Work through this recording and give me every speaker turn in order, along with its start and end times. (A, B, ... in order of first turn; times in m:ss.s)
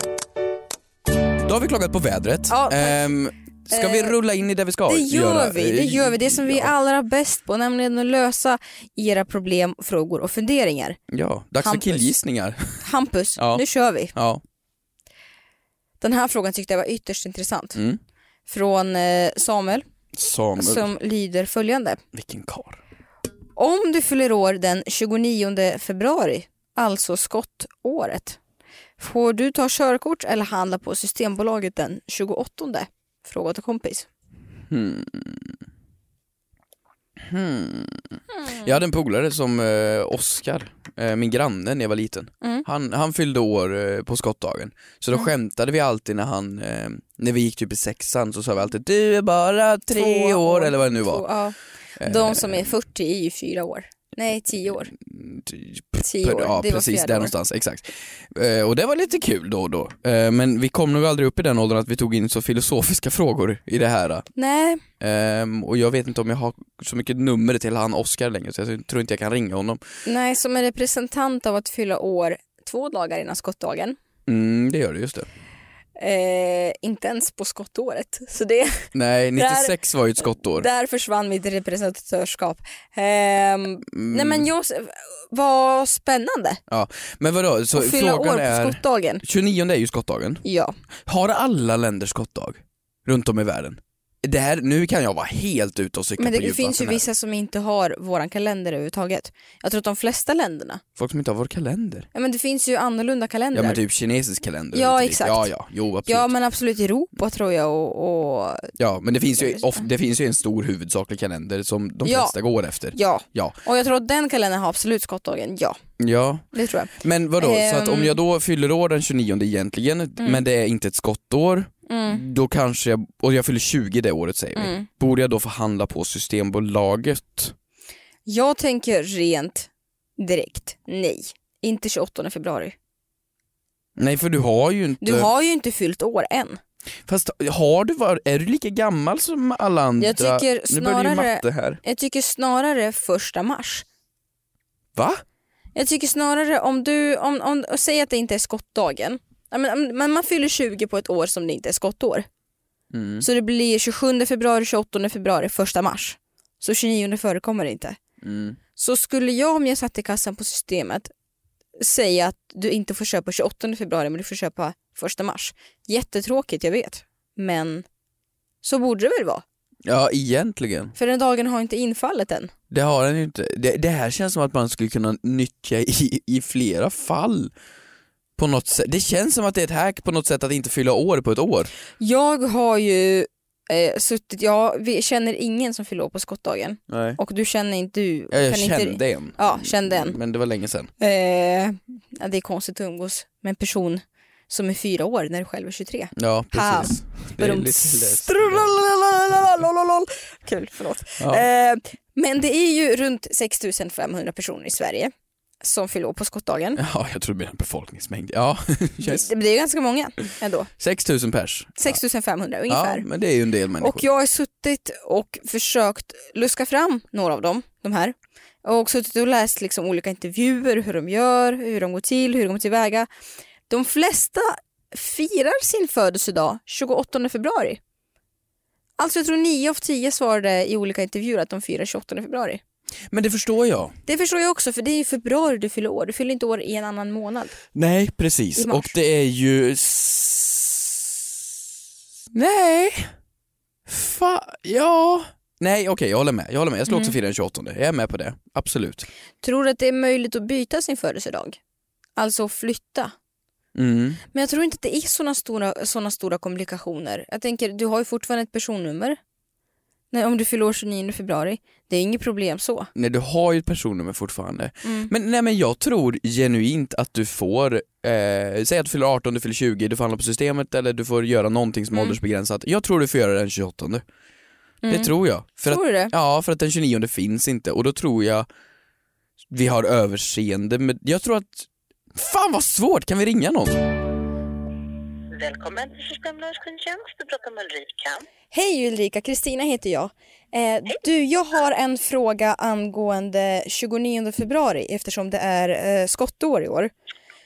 0:01.4-0:06.7 A
0:02.5-0:03.1 B
0:03.7-0:04.2 B
0:04.9-0:11.0 B
0:11.1-0:12.8 A
0:11.6-0:12.2 B
0:12.8-0:14.1 B
0:13.4-0:14.4 A
0:16.0-0:17.8 B
0:17.8-0:18.0 A
0:18.5-0:19.9 B
0:20.1-0:20.9 A
0:20.6-0:22.0 B
0:22.1-0:22.8 A
0:23.6-0:28.4 B
0:29.0-0:34.1 B
0:34.7-0:35.6 A
0:37.2-0:51.3 A
0:49.9-0:54.9 B
0:52.0-0:52.7 A
0:54.9-1:04.3 A
0:56.0-0:57.3 B
1:04.4-1:04.8 B
1:05.0-1:09.8 A
1:10.1-1:14.0 B
1:14.3-1:15.3 A
1:16.0-1:26.6 B
1:18.9-1:20.7 A
1:23.9-1:24.5 A
1:26.7-1:30.4 A
1:27.8-1:29.2 B
1:30.4-1:30.8 B
1:31.1-1:37.0 A
1:36.2-1:40.8 B
1:41.0-1:42.1 A
1:42.1-1:43.8 B
1:43.5-1:46.3 A
1:44.7-1:45.5 B
1:46.1-1:48.7 B
1:48.8-1:53.6 A
1:49.4-1:49.9 B
1:52.0-1:52.3 B
1:52.9-1:55.8 B
1:56.0-2:07.6 A
1:56.5-1:58.2 B
2:01.9-2:02.2 B
2:04.6-2:04.9 B
2:08.3-2:12.8 B
2:14.0-2:15.3 A
2:15.0-2:16.6 B
2:17.1-2:21.8 A
2:20.0-2:23.8 B
2:25.0-2:25.2 A
2:25.8-2:32.3 B
2:32.9-2:33.3 A
2:33.2-2:38.0 B
2:38.2-2:38.6 A
2:38.8-2:41.1 B
2:41.8-2:47.8 B
2:48.6-2:49.4 B
2:49.8-2:51.0 A
2:51.0-2:52.5 B
2:52.7-2:57.5 A
2:58.4-3:01.7 A
3:02.0-3:10.2 B
3:06.9-3:07.2 A
3:08.3-3:10.9 A
3:11.0-3:26.8 B
3:16.2-3:18.7 A
3:21.2-3:21.5 A
3:26.8-3:29.3 A
3:29.0-3:30.7 B
3:30.8-3:32.0 A
3:31.8-3:33.1 B
3:32.7-3:34.1 A
3:33.8-3:43.1 B
3:43.7-3:47.8 B
3:49.0-3:52.6 B
3:53.1-3:54.0 A
3:54.1-3:57.6 B
3:57.7-4:01.1 A
3:58.6-3:58.9 B
4:02.3-4:03.1 A
4:03.9-4:09.1 A
4:06.9-4:07.1 B
4:09.4-4:11.6 B
4:12.2-4:13.1 B
4:13.8-4:14.2 A
4:14.3-4:19.2 B
4:20.1-4:22.9 B
4:23.0-4:34.0 A
4:24.8-4:25.1 B
4:34.8-4:35.1 B
4:34.9-4:38.5 A
4:35.6-4:36.1 B
4:39.5-4:43.9 A
4:45.3-4:48.2 C
4:48.5-4:56.9 B